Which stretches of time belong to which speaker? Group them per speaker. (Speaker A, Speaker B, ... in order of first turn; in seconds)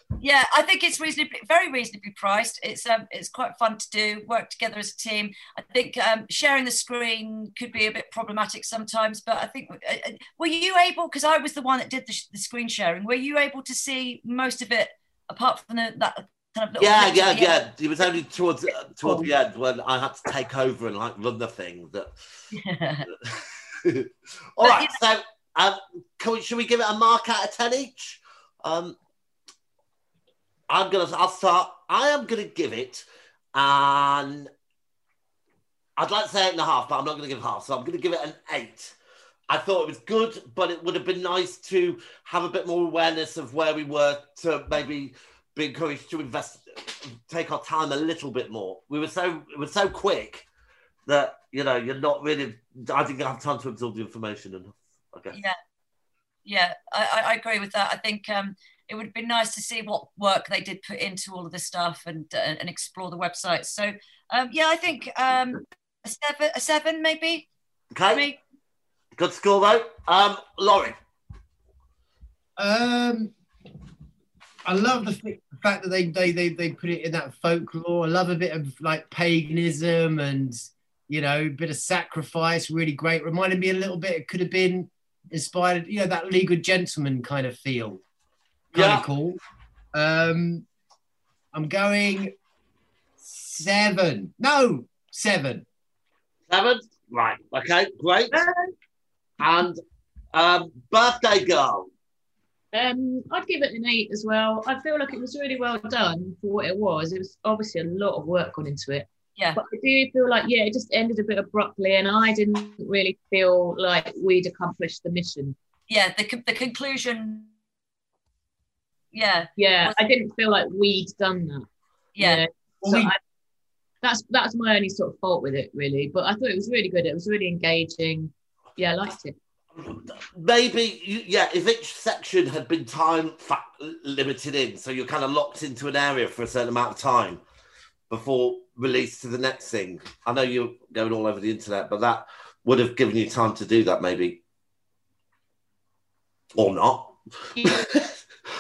Speaker A: 0.2-17.7, 22.5-23.1, 24.6-25.0, 56.5-67.5, 68.1-68.4, 115.9-117.5, 119.1-120.0, 122.2-122.4
Speaker B: 16.8-22.1, 23.2-28.9, 30.7-34.5, 36.0-38.9, 39.5-50.5, 51.0-55.4, 67.9-68.3, 69.1-71.0, 88.7-89.1, 96.5-98.4, 99.4-99.8, 100.3-101.9, 129.7-137.4, 138.1-144.4, 146.5-148.1
Speaker C: 72.6-73.3, 74.6-88.0, 88.7-89.4, 89.9-90.7, 91.5-92.3, 93.2-95.6, 122.8-123.1
Speaker D: 98.3-98.7, 102.7-115.5, 119.6-121.6, 122.2-123.2, 124.0-129.3